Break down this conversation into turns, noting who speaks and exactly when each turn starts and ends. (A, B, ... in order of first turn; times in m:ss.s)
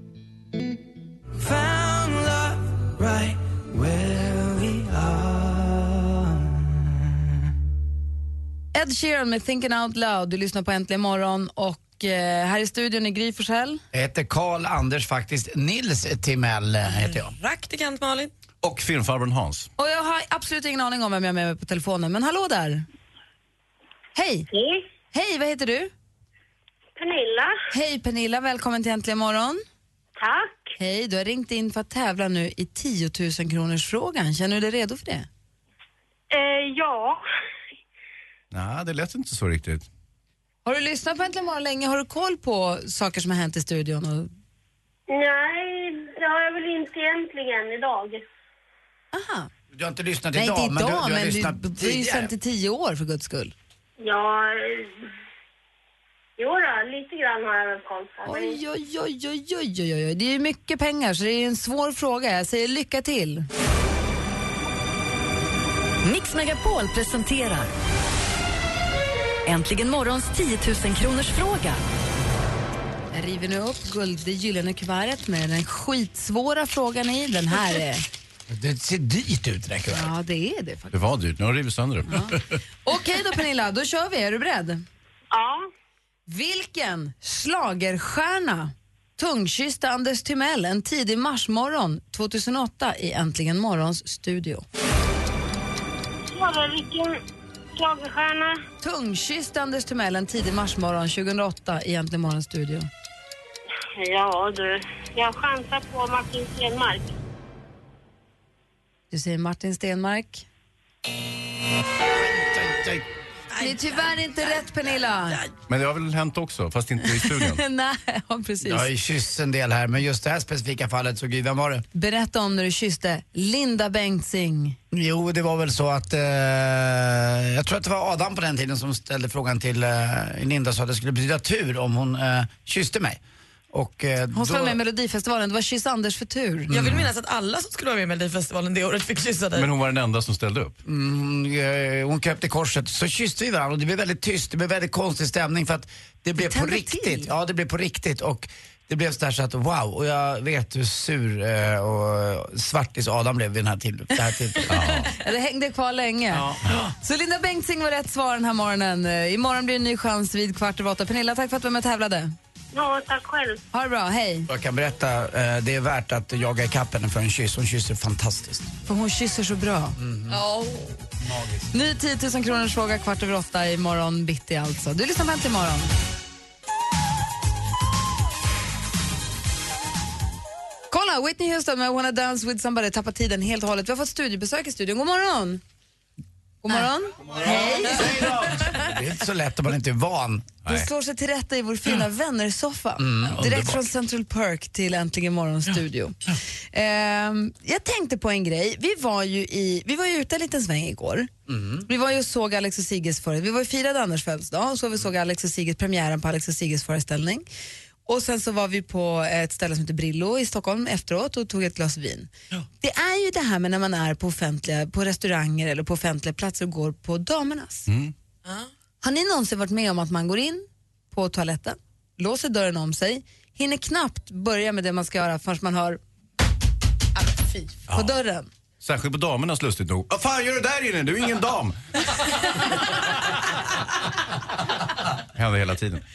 0:01.4-0:06.7 A
0:08.7-0:13.8 B
0:13.9-0:17.3 C
0:16.9-0:18.3 D
0:18.6-0:19.7 E
0:19.8-0:22.8 B
0:24.1-0:24.5 B
0:24.5-0:24.8 F
0:25.1-0:25.9 B
0:27.0-0:27.5 F
0:27.7-0:29.6 B
0:30.2-0:30.7 F
0:30.8-0:35.3 B
0:36.3-0:37.2 F
0:38.5-0:39.8 E
0:40.6-0:44.3 B
0:45.1-0:48.2 F
0:49.1-0:49.5 B
0:49.7-0:52.3 C
0:50.3-0:53.5 B
0:54.0-0:55.0 F
0:56.4-0:58.6 F
0:58.2-1:03.5 B
1:06.0-1:07.7 G
1:09.4-1:11.8 G
1:13.1-1:18.0 B
1:18.5-1:20.1 C
1:19.9-1:21.0 B
1:20.9-1:22.4 E
1:22.1-1:24.8 B
1:25.3-1:25.7 F
1:26.3-1:34.6 B
1:36.3-1:37.2 F
1:37.8-1:38.6 F
1:38.8-1:42.9 B
1:44.0-1:47.1 F
1:49.1-1:50.4 B
1:52.4-1:53.0 C
1:53.6-1:55.4 B
1:55.7-1:57.6 E
1:57.1-1:58.9 B
1:58.6-2:01.8 C
2:01.9-2:04.8 B
2:04.9-2:13.2 C
2:13.7-2:14.8 C
2:14.3-2:16.7 B
2:16.7-2:17.0 C
2:16.7-2:19.7 D
2:19.5-2:20.8 E
2:20.8-2:34.8 C
2:26.4-2:27.3 B
2:34.7-2:35.1 E
2:35.1-2:36.5 B
2:36.3-2:36.8 C
2:37.0-2:42.3 B
2:42.7-2:43.6 F
2:43.7-2:44.5 B
2:44.5-2:48.7 C
2:48.8-2:50.4 B
2:50.0-2:50.4 C
2:51.2-2:51.7 C
2:51.7-2:55.9 B
3:00.9-3:05.6 B
3:06.6-3:08.3 B
3:07.3-3:10.5 C
3:10.6-3:21.3 B
3:13.0-3:13.8 C
3:21.5-3:21.8 C
3:21.9-3:27.4 B
3:28.0-3:37.9 B
3:37.9-3:38.1 E
3:39.0-3:46.0 B
3:47.2-3:48.5 B
3:47.9-3:48.2 E
3:48.8-3:51.8 E
3:55.3-3:56.0 E